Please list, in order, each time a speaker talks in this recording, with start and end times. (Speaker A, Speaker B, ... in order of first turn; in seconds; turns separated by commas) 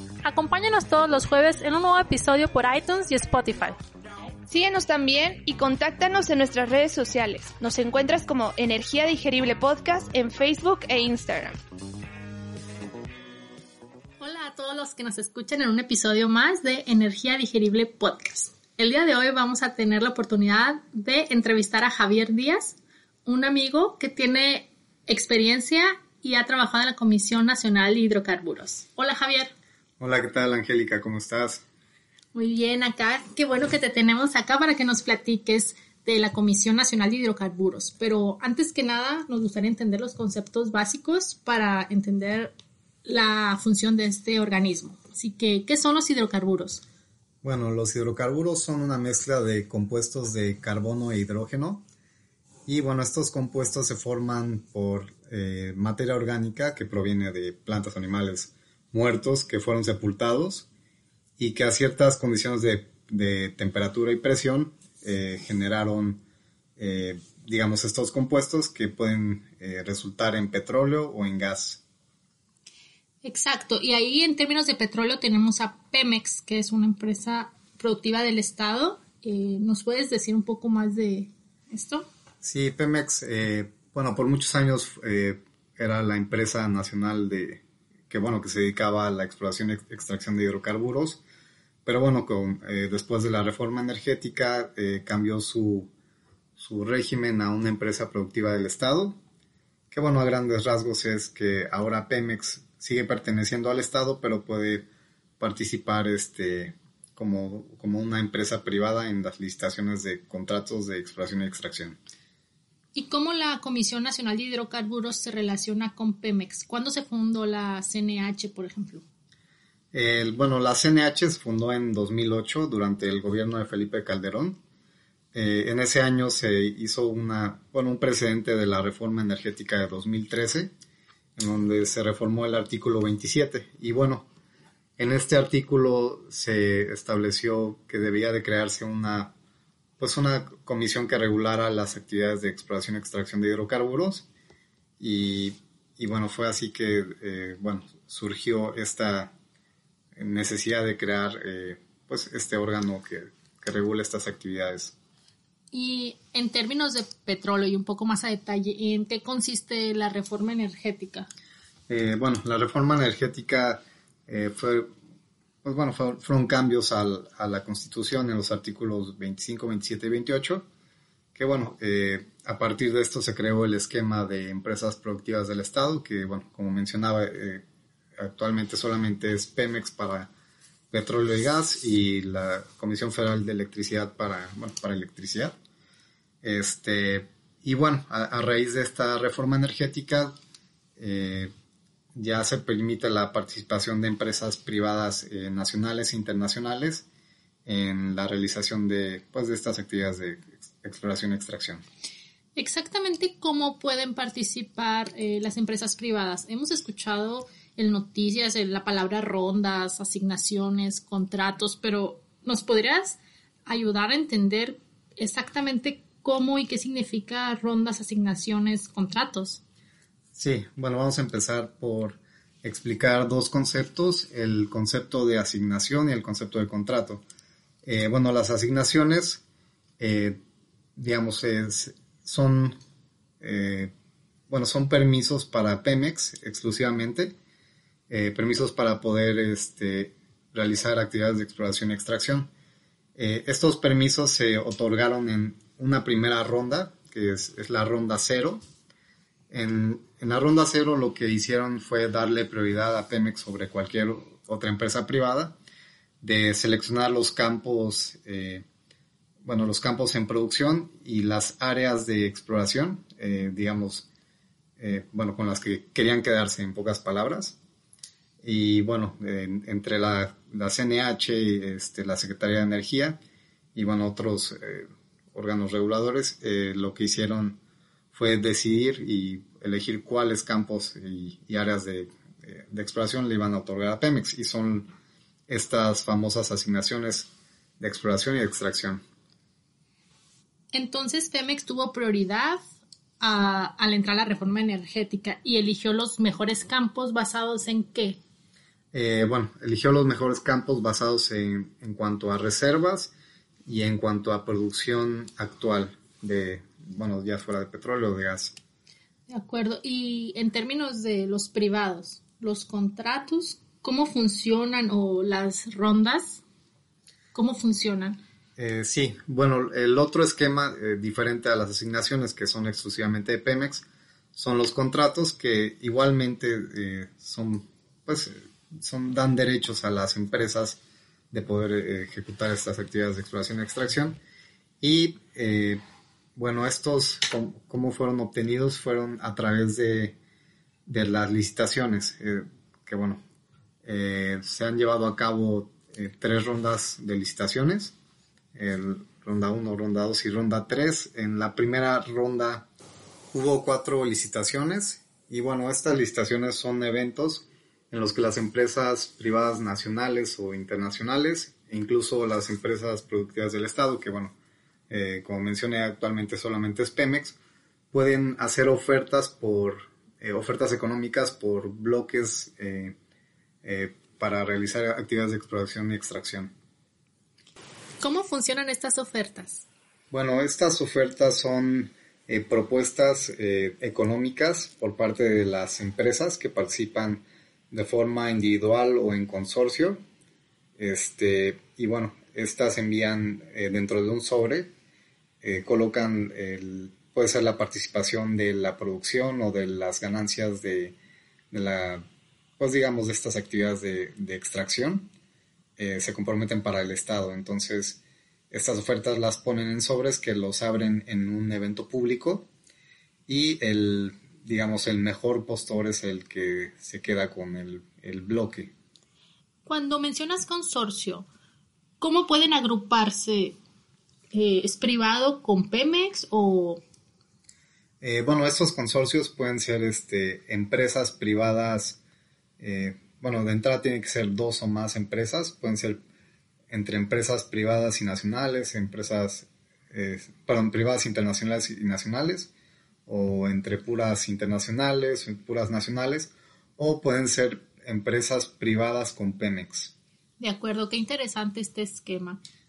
Speaker A: 0.2-3.8, Speaker B: 4.5-11.6, Speaker A: 14.2-29.5, Speaker C: 30.0-31.6, Speaker A: 32.3-42.5, Speaker A: 43.0-46.8, Speaker C: 47.4-51.8, Speaker C: 52.6-60.7, Speaker C: 61.4-66.2, Speaker C: 66.8-71.8, Speaker A: 73.2-82.0, Speaker C: 82.4-91.2, Speaker C: 91.8-95.9, Speaker C: 96.6-99.2, Speaker C: 99.9-104.9, Speaker C: 105.4-112.0, Speaker A: 112.9-119.0, Speaker C: 119.9-124.6, Speaker C: 125.3-130.7, Speaker C: 131.4-134.3, Speaker C: 135.0-139.3, Speaker C: 140.0-144.2, Speaker C: 145.0-149.3, Speaker C: 150.1-154.9, Speaker A: 155.7-161.3, Speaker C: 161.9-164.9, Speaker C: 165.6-170.6, Speaker C: 171.3-177.6, Speaker C: 178.2-180.3, Speaker C: 180.9-185.6, Speaker C: 186.4-190.3, Speaker C: 191.0-191.5, Speaker C: 192.1-197.0, Speaker C: 197.7-201.8, Speaker A: 202.6-219.6, Speaker C: 220.3-227.2, Speaker C: 227.8-229.4, Speaker C: 230.0-230.4, Speaker C: 230.9-232.8, Speaker C: 233.4-233.9, Speaker C: 234.5-237.3, Speaker C: 238.1-242.5, Speaker C: 243.2-248.6, Speaker C: 249.5-255.6, Speaker C: 256.2-258.6, Speaker C: 259.4-264.1, Speaker C: 264.8-267.6, Speaker C: 268.4-273.2, Speaker C: 273.7-277.6, Speaker C: 278.1-284.9, Speaker C: 285.5-287.3, Speaker C: 287.8-289.0, Speaker A: 290.7-292.6, Speaker A: 293.2-298.2, Speaker C: 298.9-303.1, Speaker C: 303.6-308.5, Speaker A: 309.3-316.4, Speaker A: 317.3-318.2, Speaker C: 318.6-330.8, Speaker C: 331.3-334.2, Speaker C: 334.8-335.8, Speaker C: 336.4-340.2, Speaker C: 340.9-343.2, Speaker C: 343.8-347.9, Speaker C: 348.5-352.7, Speaker C: 353.3-364.3, Speaker C: 364.9-367.4, Speaker C: 367.9-372.9, Speaker C: 373.6-376.5, Speaker A: 378.0-379.6, Speaker C: 380.1-390.0, Speaker C: 390.8-394.7, Speaker C: 395.4-400.9, Speaker C: 401.5-402.0, Speaker C: 402.6-405.1, Speaker C: 405.8-412.5, Speaker C: 413.3-418.7, Speaker A: 419.6-421.3, Speaker A: 422.0-423.6, Speaker A: 424.3-426.8, Speaker C: 428.0-432.0, Speaker C: 432.6-436.0, Speaker C: 436.7-442.5, Speaker C: 443.1-449.9, Speaker A: 450.4-452.4